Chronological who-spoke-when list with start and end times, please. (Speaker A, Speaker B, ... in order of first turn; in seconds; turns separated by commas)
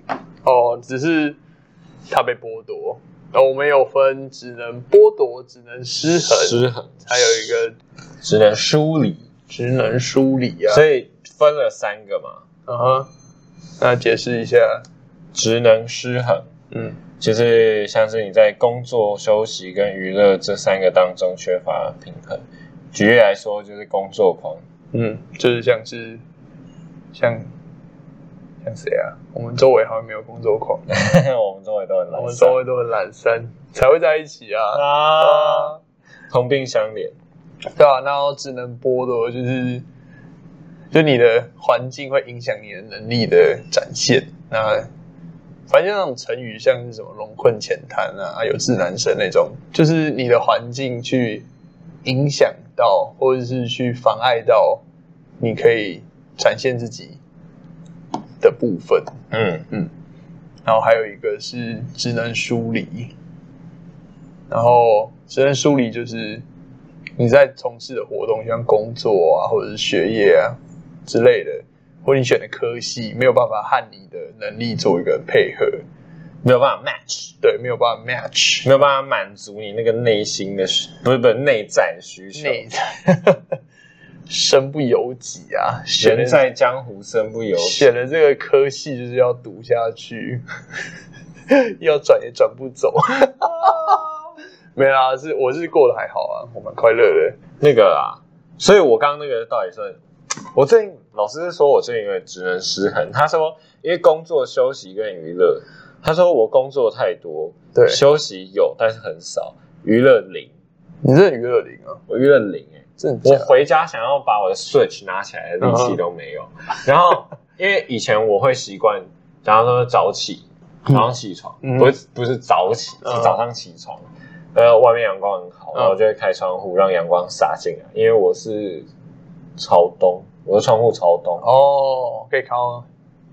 Speaker A: 0.4-1.4, Speaker A: 2.1-7.8, Speaker B: 6.1-7.6, Speaker B: 8.2-9.3, Speaker A: 9.5-10.8, Speaker B: 10.7-12.4, Speaker A: 12.7-13.1, Speaker A: 13.8-14.8, Speaker B: 15.3-16.5, Speaker A: 16.7-17.0, Speaker B: 17.2-24.6, Speaker A: 24.9-26.2, Speaker A: 27.1-27.5, Speaker A: 28.6-30.9, Speaker B: 30.9-32.6, Speaker A: 32.1-35.8, Speaker B: 34.7-35.7, Speaker B: 36.3-37.1, Speaker A: 37.8-39.8, Speaker A: 40.9-44.9, Speaker A: 45.7-51.5, Speaker A: 52.0-54.8, Speaker A: 55.4-57.2, Speaker A: 58.4-59.2, Speaker B: 59.3-59.6, Speaker A: 60.6-63.1, Speaker A: 64.5-66.4, Speaker A: 67.2-75.8, Speaker B: 76.4-77.3, Speaker A: 77.4-78.7, Speaker B: 78.6-82.6, Speaker A: 82.3-83.4, Speaker A: 84.3-86.4, Speaker B: 86.0-87.9, Speaker A: 87.5-90.4, Speaker A: 91.5-94.0, Speaker B: 93.7-93.9, Speaker A: 94.8-97.4, Speaker B: 97.6-100.0, Speaker B: 100.5-110.5, Speaker A: 107.7-108.0, Speaker A: 111.0-112.0, Speaker B: 112.1-128.9, Speaker A: 113.0-113.5, Speaker A: 115.6-116.0, Speaker A: 121.6-121.9, Speaker A: 123.0-123.3, Speaker B: 129.6-131.4, Speaker A: 131.4-132.9